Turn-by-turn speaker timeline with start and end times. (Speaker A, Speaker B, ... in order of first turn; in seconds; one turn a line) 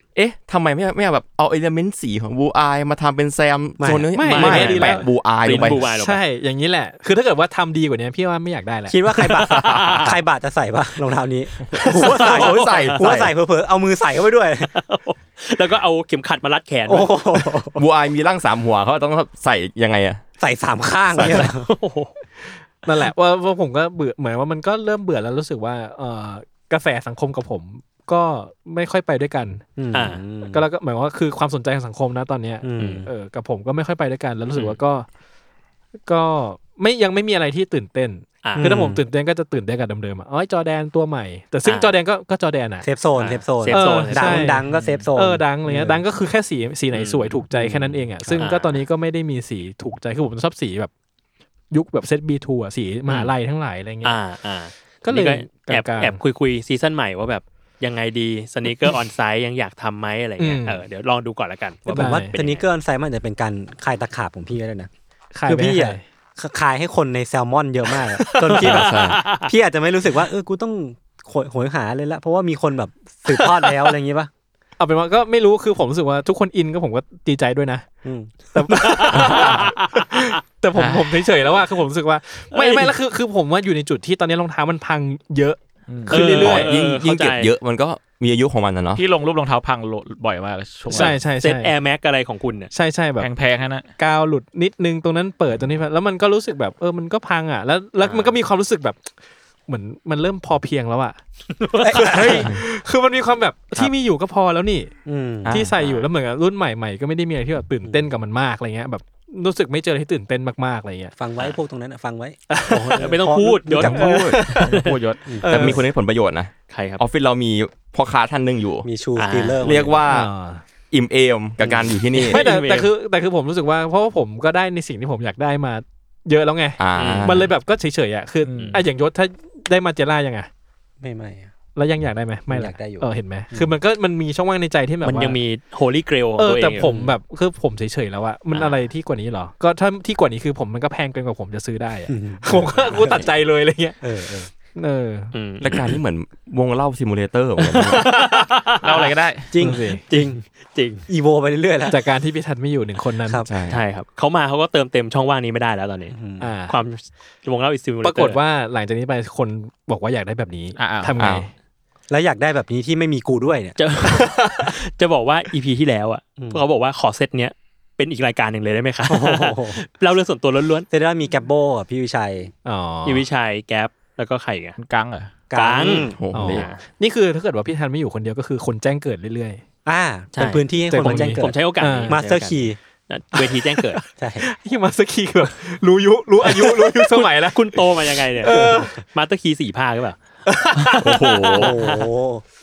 Speaker A: 0.1-5.9
Speaker B: 3.8-4.9
Speaker C: 4.1-5.1
Speaker D: 4.3-6.2
Speaker C: 5.8-9.6
Speaker B: 8.9-14.7
Speaker D: 9.3-10.2
Speaker D: 11.8-13.3
Speaker A: 12.2-13.2
Speaker D: 14.7-17.1
Speaker B: 16.9-17.8
Speaker A: 17.7-20.2
Speaker B: 20.4-21.7
Speaker D: 21.2-22.1
Speaker C: 22.8-29.6
Speaker B: 29.8-30.6
Speaker D: 29.9-30.2
Speaker C: 30.5-35.0
Speaker B: 32.6-33.1
Speaker D: 32.8-33.0
Speaker C: 36.0-42.9
Speaker D: 38.4-38.7
Speaker B: 38.5-39.0
Speaker D: 41.6-41.9
Speaker B: 42.8-46.0
Speaker D: 43.1-44.6
Speaker C: 43.7-50.9
Speaker E: 44.7-45.0
Speaker D: 46.9-48.8
Speaker C: 51.7-54.1
Speaker D: 54.0-62.7
Speaker C: 55.0-56.2
Speaker C: 60.4-60.8
Speaker B: 61.9-64.9
Speaker C: 61.9-62.3
Speaker C: 65.3-66.0
Speaker B: 65.5-74.3
Speaker D: 68.4-69.5
Speaker A: 68.6-69.2
Speaker C: 73.3-73.7
Speaker C: 74.8-77.8
Speaker B: 78.0-78.3
Speaker C: 78.5-86.7
Speaker D: 78.7-80.3
Speaker B: 78.9-79.3
Speaker E: 80.7-81.2
Speaker D: 82.5-83.0
Speaker E: 85.9-86.1
Speaker D: 86.1-87.5
Speaker A: 86.2-89.0
Speaker E: 89.0-91.2
Speaker C: 90.9-91.7
Speaker D: 90.9-92.7
Speaker C: 92.7-93.3
Speaker E: 93.2-93.9
Speaker C: 94.0-99.1
Speaker D: 98.0-98.4
Speaker C: 99.7-101.2
Speaker D: 101.5-102.4
Speaker B: 101.8-102.4
Speaker C: 101.9-104.9
Speaker B: 105.0-105.5
Speaker C: 105.5-111.1
Speaker D: 105.8-106.1
Speaker B: 111.1-114.3
Speaker C: 112.5-113.1
Speaker D: 112.9-114.9
Speaker C: 113.8-114.8
Speaker A: 114.0-114.3
Speaker E: 114.6-115.3
Speaker B: 115.2-115.8
Speaker C: 115.4-115.8
Speaker A: 115.5-118.9
Speaker D: 116.7-117.0
Speaker B: 118.8-120.0
Speaker D: 119.2-119.9
Speaker A: 119.6-120.3
Speaker C: 120.1-120.6
Speaker A: 120.9-122.4
Speaker B: 121.6-122.0
Speaker D: 122.2-122.9
Speaker C: 122.2-130.5
Speaker A: 126.8-127.5
Speaker D: 127.0-127.5
Speaker E: 128.4-128.8
Speaker B: 131.0-131.5
Speaker C: 131.8-135.4
Speaker B: 132.5-133.7
Speaker D: 135.0-136.9
Speaker C: 136.4-144.0
Speaker B: 136.8-137.1
Speaker D: 138.5-138.8
Speaker B: 142.1-142.9
Speaker A: 142.9-143.3
Speaker B: 144.0-144.5
Speaker C: 144.7-145.3
Speaker D: 145.3-146.0
Speaker A: 145.6-148.0
Speaker D: 147.6-149.1
Speaker E: 148.8-149.5
Speaker B: 149.5-150.4
Speaker C: 149.6-150.0
Speaker D: 150.1-151.1
Speaker B: 151.1-152.0
Speaker C: 151.9-153.5
Speaker A: 153.5-153.8
Speaker D: 153.7-156.2
Speaker B: 156.1-156.5
Speaker C: 156.4-156.8
Speaker D: 156.7-158.4
Speaker C: 158.0-161.5
Speaker E: 160.8-161.1
Speaker A: 161.2-161.4
Speaker B: 162.1-163.8
Speaker D: 163.8-170.9
Speaker B: 166.4-166.6
Speaker B: 169.1-169.8
Speaker B: 170.9-172.5
Speaker C: 172.6-173.2
Speaker D: 173.0-174.8
Speaker E: 174.8-175.3
Speaker B: 175.5-176.2
Speaker D: 175.5-176.8
Speaker A: 176.1-176.7
Speaker C: 176.3-179.6
Speaker B: 179.8-182.8
Speaker D: 180.3-184.0
Speaker C: 180.9-182.2
Speaker C: 183.4-187.8
Speaker B: 184.2-184.5
Speaker D: 186.4-190.2
Speaker C: 188.4-189.0
Speaker B: 188.5-188.9
Speaker D: 190.8-192.1
Speaker A: 191.0-191.7
Speaker B: 191.5-192.4